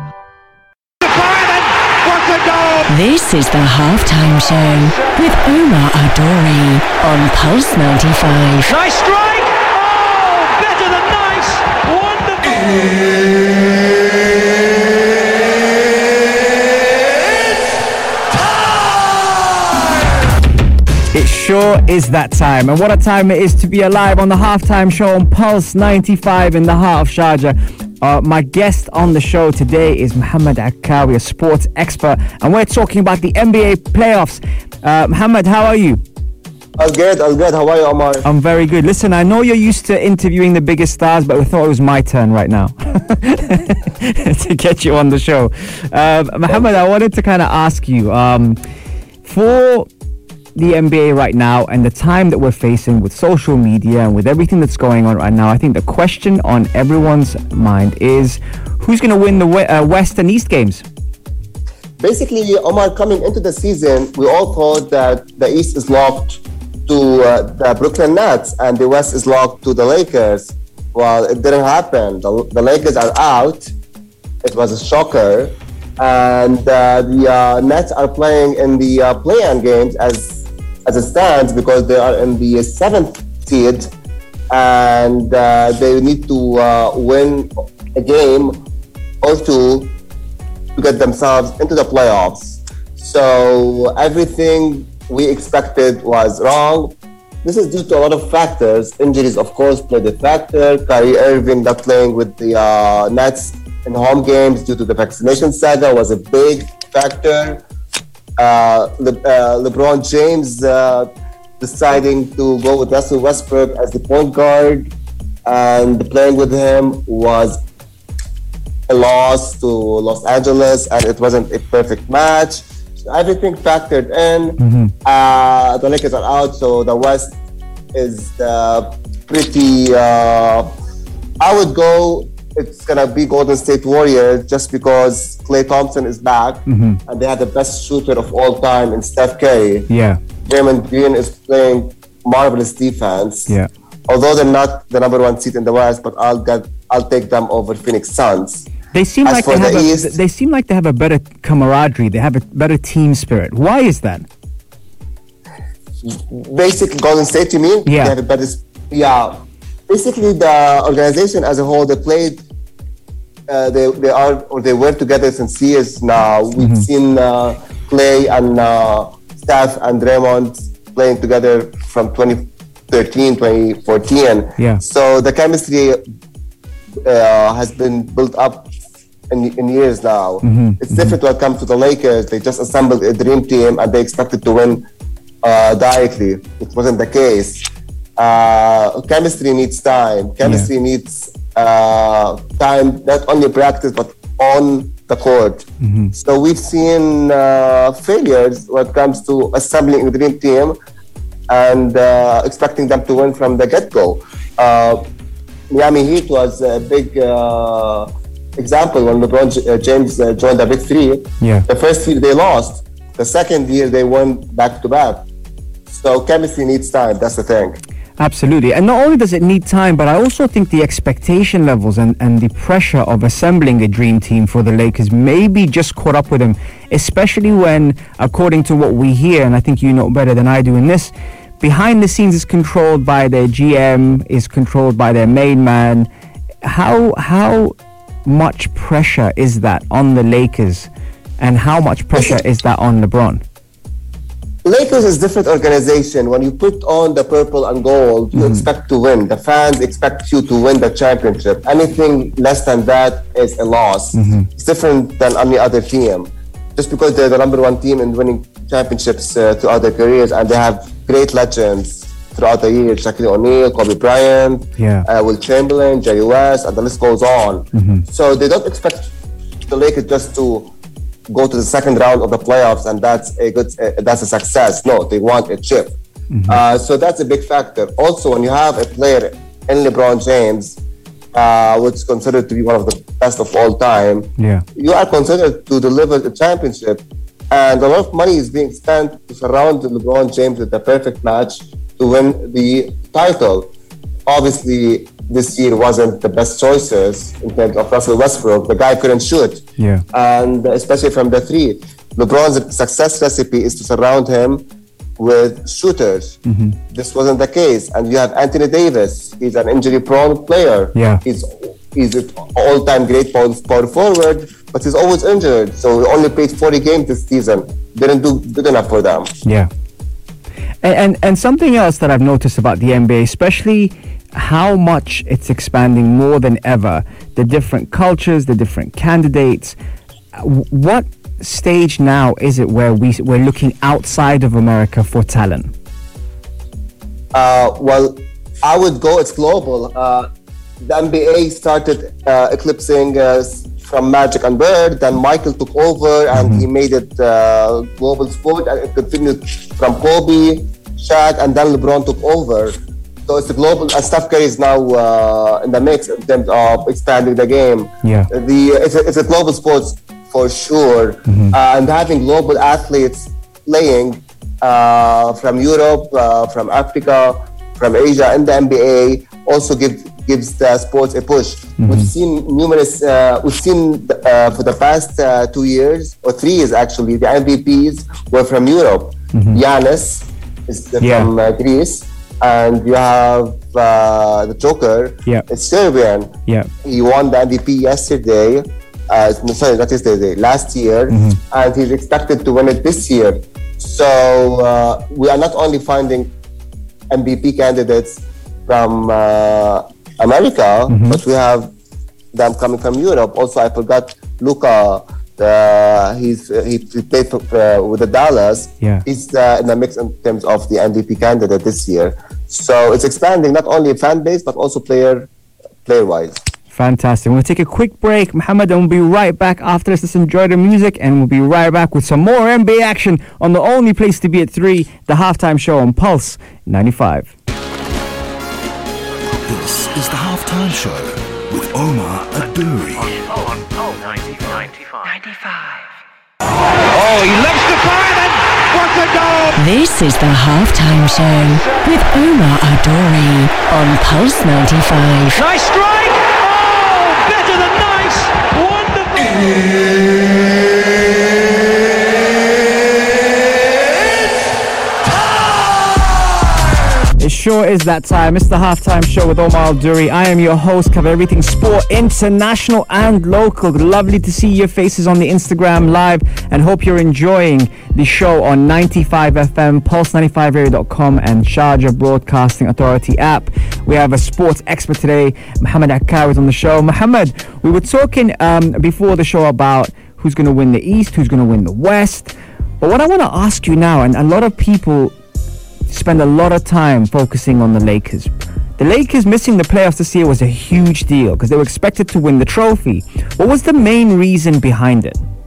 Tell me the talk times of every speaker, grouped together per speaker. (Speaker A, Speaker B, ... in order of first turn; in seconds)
Speaker A: 1.0-2.9, 8.7-12.9, 436.9-439.6, 445.3-449.7
Speaker B: 2.9-8.7, 439.6-445.4
Speaker C: 21.1-36.0, 38.2-48.6, 49.2-49.9, 50.5-60.8, 124.6-124.9, 136.7-137.0, 139.9-140.2, 148.9-154.3, 157.9-158.1, 166.6-166.8, 180.4-181.1, 190.4-190.7, 195.8-196.1, 211.4-211.7, 218.2-236.1, 236.6-237.7, 238.2-243.4, 248.3-248.7, 254.1-254.5, 264.8-265.1, 267.7-268.0, 276.3-276.6, 284.4-284.6, 299.8-300.0, 306.4-306.8, 310.9-311.2, 319.4-319.7, 320.8-329.8, 330.3-335.7, 346.3-346.6, 358.0-358.3, 361.3-361.5, 371.8-372.1, 379.3-379.6, 381.0-381.3, 391.1-391.4, 400.9-401.2, 416.7-427.3, 457.2-485.1, 485.9-495.2
Speaker D: 36.8-38.2, 62.0-73.7, 74.4-83.9, 84.5-88.6, 89.2-89.9, 90.7-107.6, 108.4-114.9, 115.5-117.6, 118.9-127.3, 127.9-130.8, 131.4-139.9, 140.4-143.5, 144.1-148.7, 149.2-150.1, 156.0-162.4, 163.5-176.0, 177.0-178.7, 179.3-184.9, 185.4-187.7, 188.2-200.8, 201.5-205.1, 205.7-215.2, 215.9-217.8, 244.6-269.1, 269.7-270.7, 271.3-275.9, 276.5-280.8, 281.3-293.7, 294.3-304.6, 305.2-319.3, 337.3-340.3, 340.8-396.3, 397.1-401.7, 402.3-415.3, 415.8-416.4
Speaker E: 429.4-433.6